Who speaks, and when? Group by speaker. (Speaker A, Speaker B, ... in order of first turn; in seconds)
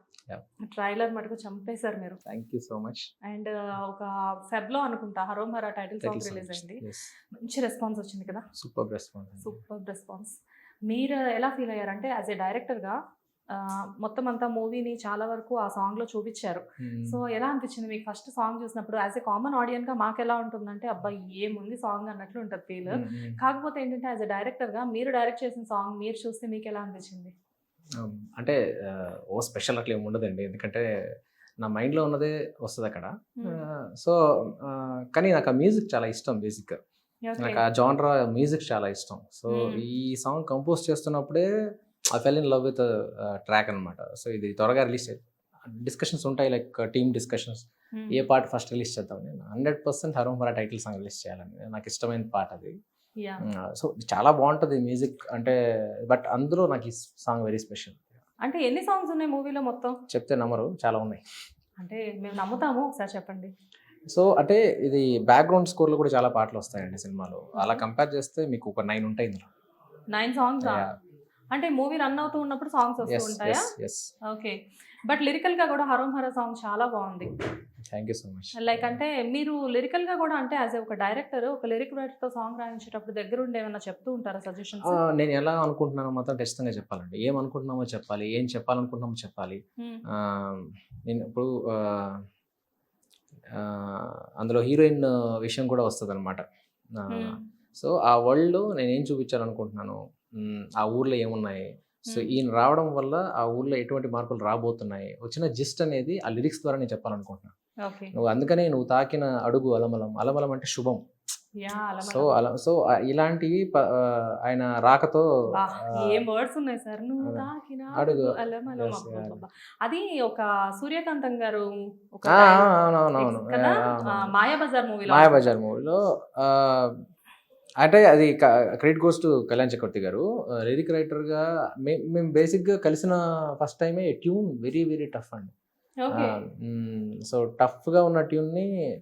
Speaker A: 0.7-2.2, 3.2-6.8, 7.3-8.4, 9.4-10.3, 10.9-13.0, 13.5-27.3, 37.2-37.6, 39.5-39.8, 58.4-60.0, 61.8-63.5, 67.6-67.8, 70.1-70.9, 71.5-73.7, 74.3-74.5, 75.1-77.3, 78.6-85.0, 97.1-97.4, 102.1-102.3, 107.8-108.1, 111.6-112.3, 115.5-125.5, 136.0-136.4
Speaker B: 2.2-3.1, 6.0-7.1, 8.5-9.6, 16.8-17.2, 22.9-23.4, 28.0-30.9, 31.6-36.8, 37.4-41.5, 42.1-52.7, 53.5-58.0, 60.1-61.2, 64.1-69.5, 70.6-70.9, 73.0-74.1, 77.9-79.0, 84.9-89.6, 90.1-92.2, 93.5-96.4, 97.0-107.5, 108.1-111.0, 112.0-115.2, 115.8-116.2, 117.2-119.4, 122.3-124.3, 125.1-127.0, 127.8-135.5, 136.2-138.7